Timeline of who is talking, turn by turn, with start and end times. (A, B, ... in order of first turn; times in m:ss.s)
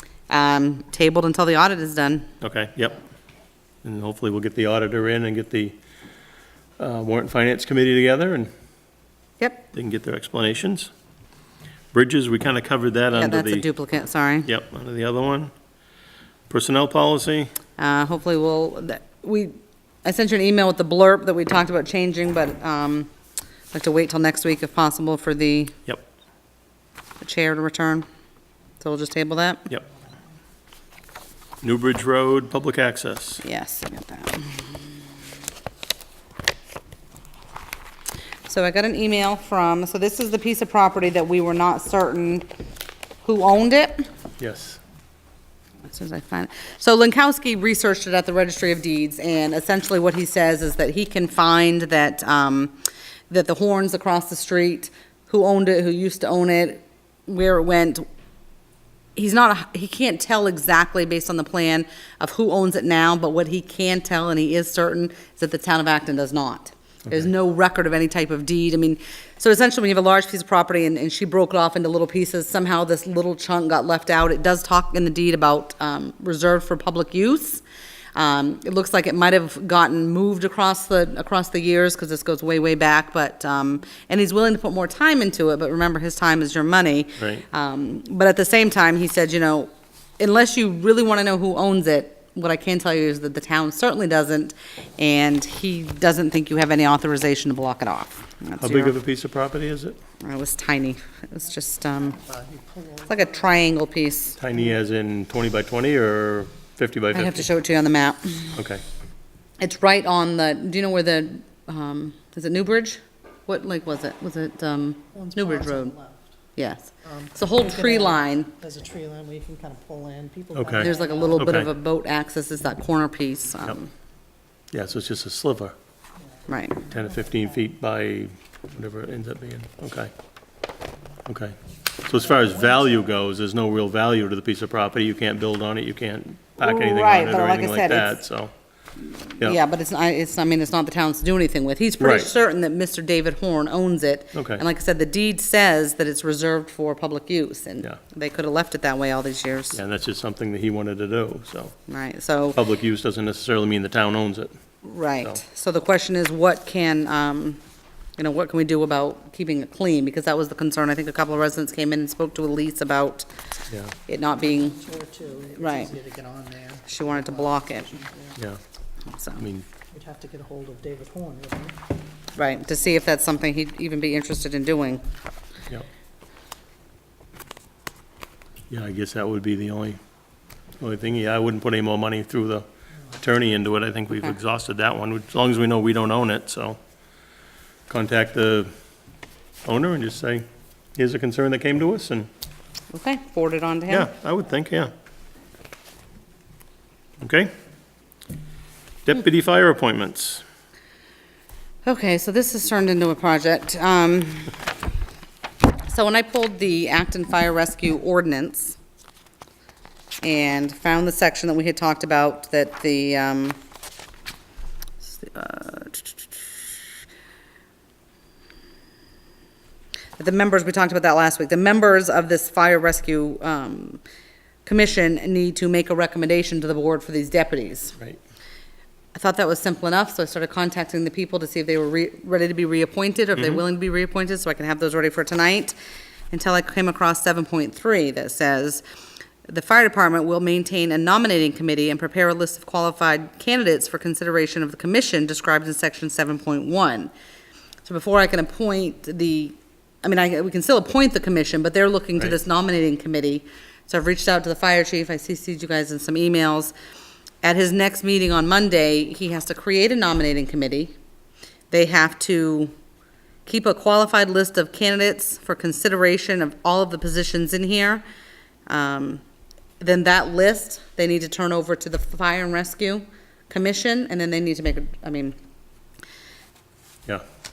0:00.3-0:02.3 A
0:02.4-0:03.0 B
0:03.8-0:05.8 B
0:06.8-0:08.5 B
0:09.7-0:10.9 B
0:11.9-0:13.6 B
0:13.1-0:14.5 A
0:14.4-0:15.5 B
0:16.5-0:17.5 B
0:17.8-0:23.1 A
0:23.7-0:25.8 A
0:27.2-0:28.1 A
0:28.8-0:29.6 A
0:31.6-0:33.4 B
0:33.4-0:34.8 A
0:38.4-0:42.4 A
0:43.2-0:44.1 A
0:44.4-0:44.8 B
0:45.8-0:52.7 A
0:53.3-0:58.0 A
0:59.2-1:17.6 A
1:18.1-1:39.0 A
1:27.2-1:27.4 B
1:38.6-1:40.0 B
1:40.2-1:42.2 A
1:42.2-1:43.3 C
1:43.1-1:44.4 A
1:44.4-1:47.5 B
1:47.1-1:48.6 A
1:48.6-1:48.8 B
1:49.6-1:55.9 A
1:55.1-1:56.3 C
1:56.6-1:58.5 A
1:57.0-2:01.4 C
2:00.5-2:01.7 B
2:00.8-2:03.9 A
2:04.7-2:05.7 B
2:06.5-2:06.8 A
2:06.9-2:10.1 B
2:11.2-2:18.5 B
2:16.6-2:18.2 A
2:19.4-2:29.8 A
2:22.0-2:22.3 B
2:24.3-2:24.6 B
2:29.7-2:31.7 B
2:31.9-2:32.6 A
2:32.5-2:34.5 B
2:34.8-2:37.6 A
2:38.2-2:43.3 A
2:43.7-2:43.9 B
2:44.1-2:44.8 A
2:44.5-2:48.4 C
2:45.6-2:45.9 A
2:46.9-2:48.0 A
2:49.1-2:49.4 A
2:49.4-2:49.7 B
2:49.9-2:51.8 C
2:52.4-2:55.0 A
2:58.7-3:00.0 B
3:00.8-3:06.8 B
3:07.9-3:08.7 B
3:09.6-3:12.3 B
3:12.9-3:14.1 A
3:13.9-3:14.9 B
3:17.2-3:17.5 B
3:19.0-3:20.4 B
3:21.8-3:24.6 A
3:25.8-3:28.8 A
3:30.2-3:33.6 A
3:35.0-3:36.5 A
3:40.2-3:44.0 A
3:44.6-3:48.0 A
3:49.1-3:55.7 A
3:53.4-3:53.6 B
3:56.3-3:58.8 A
3:59.5-4:07.1 A
4:07.8-4:16.7 A
4:17.4-4:20.9 A
4:21.7-4:22.7 A
4:23.4-4:28.0 A
4:28.7-4:29.2 A
4:29.8-4:35.4 A